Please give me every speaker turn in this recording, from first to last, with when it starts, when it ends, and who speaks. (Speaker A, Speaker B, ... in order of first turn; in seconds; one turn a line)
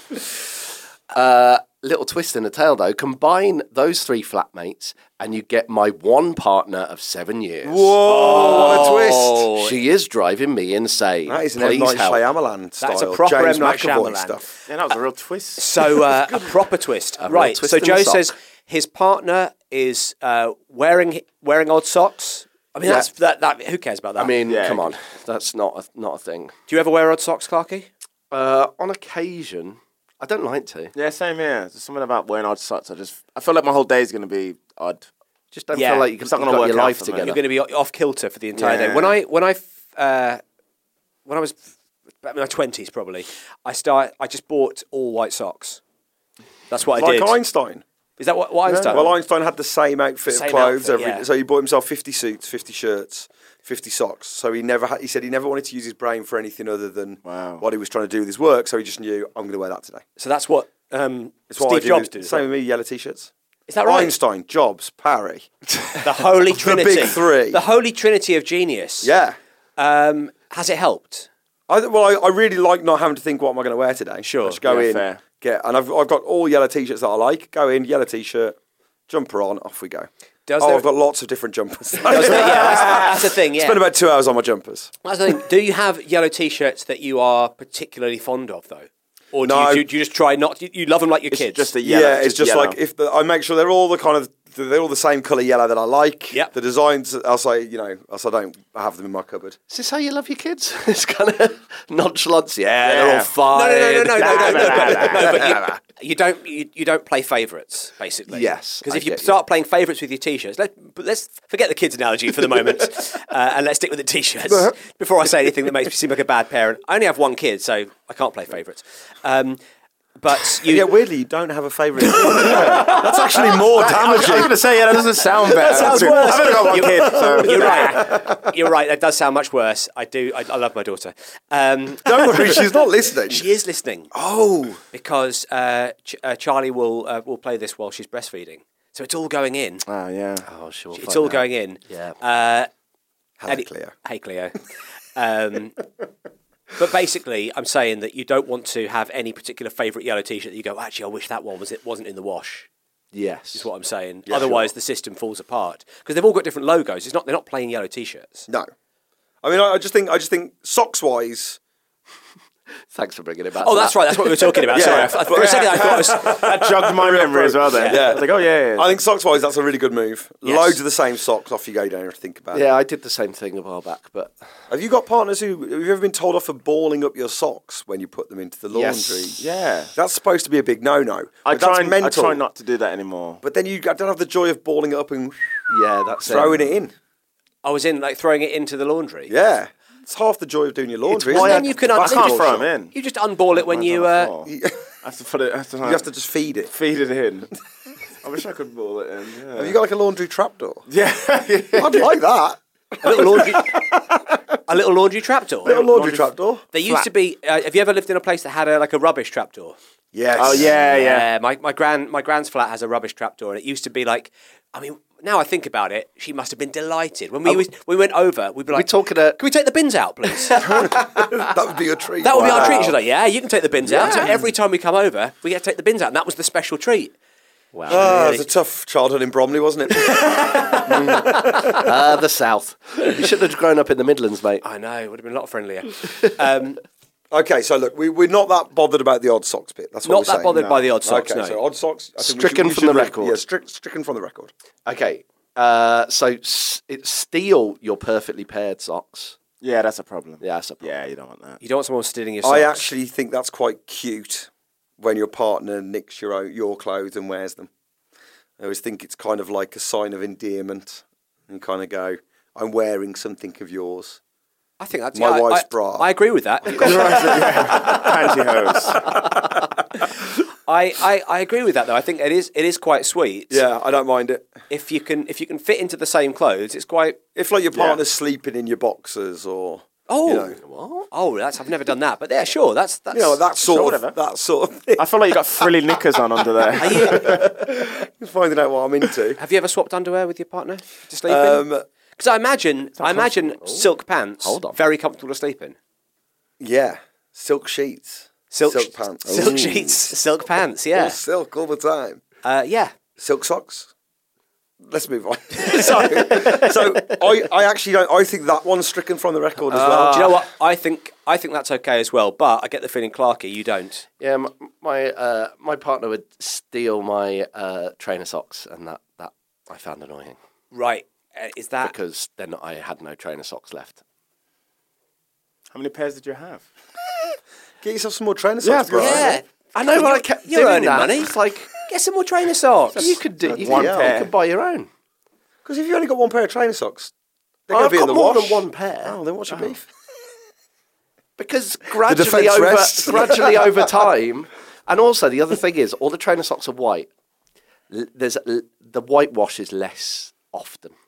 Speaker A: 1.1-8.9
Speaker B: 7.6-9.5
Speaker C: 8.1-9.8
Speaker A: 9.5-12.2
Speaker B: 11.3-14.5
Speaker C: 12.8-14.4
Speaker D: 14.7-15.9
Speaker C: 15.6-24.4
Speaker A: 17.2-18.3
Speaker A: 24.2-26.5
Speaker D: 24.5-24.9
Speaker C: 26.7-27.9
Speaker A: 28.3-30.9
Speaker D: 30.9-35.0
Speaker A: 35.5-37.4
Speaker C: 35.7-36.1
Speaker D: 36.2-37.3
Speaker C: 37.2-40.4
Speaker D: 38.6-39.2
Speaker C: 41.3-41.6
Speaker C: 42.2-45.8
Speaker C: 46.7-47.4
Speaker B: 47.0-47.8
Speaker C: 48.2-49.1
Speaker D: 48.7-49.0
Speaker B: 48.9-60.0
Speaker C: 50.3-51.3
Speaker D: 57.2-57.6
Speaker C: 60.2-62.4
Speaker B: 61.5-63.3
Speaker C: 63.7-64.2
Speaker B: 63.8-65.5
Speaker C: 66.0-69.1
Speaker B: 66.5-67.6
Speaker B: 69.0-69.4
Speaker C: 69.8-71.3
Speaker B: 71.7-78.6
Speaker C: 74.2-74.6
Speaker D: 74.7-75.2
Speaker B: 79.1-84.9
Speaker C: 80.5-80.9
Speaker C: 82.1-83.8
Speaker C: 85.0-91.7
Speaker B: 89.4-89.9
Speaker D: 91.3-92.8
Speaker B: 91.8-99.6
Speaker A: 99.7-105.7
Speaker D: 102.8-103.3
Speaker C: 103.5-119.6
Speaker D: 104.2-105.5
Speaker A: 108.3-109.4
Speaker C: 120.2-120.9
Speaker B: 120.7-124.8
Speaker C: 122.2-123.0
Speaker D: 122.5-123.0
Speaker D: 123.8-128.1
Speaker B: 125.4-128.4
Speaker C: 125.6-134.1
Speaker B: 132.1-133.4
Speaker B: 134.1-134.8
Speaker C: 134.9-139.8
Speaker D: 139.9-140.5
Speaker A: 140.4-142.2
Speaker C: 140.9-142.7
Speaker B: 143.4-143.9
Speaker C: 143.5-144.6
Speaker C: 145.2-145.8
Speaker C: 146.8-152.7
Speaker A: 153.1-153.7
Speaker C: 153.5-158.5
Speaker B: 154.3-154.7
Speaker B: 159.4-161.6
Speaker A: 162.9-165.0
Speaker C: 163.6-166.4
Speaker B: 164.7-172.7
Speaker D: 165.1-169.0
Speaker C: 167.8-168.0
Speaker C: 170.4-170.8
Speaker A: 172.5-174.3
Speaker B: 174.7-182.4
Speaker A: 178.7-179.3
Speaker D: 179.4-179.9
Speaker D: 181.4-183.4
Speaker B: 183.4-185.7
Speaker A: 185.7-186.7
Speaker B: 186.2-186.9
Speaker C: 187.6-189.3
Speaker B: 189.3-192.7
Speaker C: 191.2-194.3
Speaker D: 191.3-192.9
Speaker D: 193.6-194.5
Speaker B: 194.5-194.8
Speaker D: 195.0-196.1
Speaker B: 195.8-196.7
Speaker D: 196.7-197.5
Speaker D: 198.2-199.8
Speaker B: 199.6-200.9
Speaker D: 200.9-202.1
Speaker B: 201.8-204.4
Speaker C: 203.0-203.8
Speaker C: 204.7-205.8
Speaker B: 205.7-206.6
Speaker D: 205.7-206.3
Speaker C: 206.7-209.8
Speaker B: 210.1-210.9
Speaker D: 210.4-211.3
Speaker C: 210.8-221.2
Speaker A: 218.7-219.4
Speaker A: 220.5-220.9
Speaker B: 220.6-222.9
Speaker C: 222.2-227.1
Speaker A: 222.3-222.9
Speaker A: 223.9-224.4
Speaker B: 224.0-224.4
Speaker A: 227.7-228.3
Speaker B: 227.9-231.9
Speaker C: 227.9-228.5
Speaker C: 230.1-230.9
Speaker A: 230.8-234.6
Speaker C: 234.6-236.8
Speaker B: 237.3-244.5
Speaker C: 240.1-241.6
Speaker D: 240.5-240.8
Speaker A: 242.2-243.4
Speaker A: 244.9-249.4
Speaker D: 249.6-251.6
Speaker A: 250.4-250.9
Speaker C: 251.6-252.9
Speaker B: 252.4-257.7
Speaker B: 258.6-264.2
Speaker C: 264.8-267.4
Speaker B: 265.1-266.1
Speaker B: 266.6-269.4
Speaker D: 266.8-269.0
Speaker C: 270.7-273.6
Speaker B: 273.5-274.5
Speaker C: 274.7-277.2
Speaker B: 277.4-280.6
Speaker C: 280.1-283.4
Speaker B: 283.1-285.7
Speaker D: 283.7-284.2
Speaker D: 285.0-287.5
Speaker B: 286.8-289.4
Speaker C: 286.8-287.4
Speaker C: 289.4-295.8
Speaker B: 291.3-291.9
Speaker A: 293.0-293.9
Speaker A: 294.4-294.8
Speaker B: 296.6-300.0
Speaker C: 298.5-301.2
Speaker D: 299.3-299.6
Speaker B: 300.9-302.2
Speaker C: 302.4-302.9
Speaker B: 303.2-303.9
Speaker B: 304.8-310.4
Speaker A: 309.7-310.4
Speaker C: 310.0-314.1
Speaker A: 314.2-320.4
Speaker C: 320.7-321.9
Speaker A: 321.8-324.0
Speaker D: 325.7-326.6
Speaker B: 327.8-329.4
Speaker D: 328.6-329.2
Speaker C: 329.0-333.1
Speaker A: 329.8-331.7
Speaker A: 333.0-334.9
Speaker B: 333.5-334.2
Speaker D: 333.5-334.3
Speaker B: 335.6-337.1
Speaker B: 337.7-339.9
Speaker A: 337.7-339.2
Speaker A: 341.4-347.1
Speaker B: 342.0-343.9
Speaker A: 347.9-350.9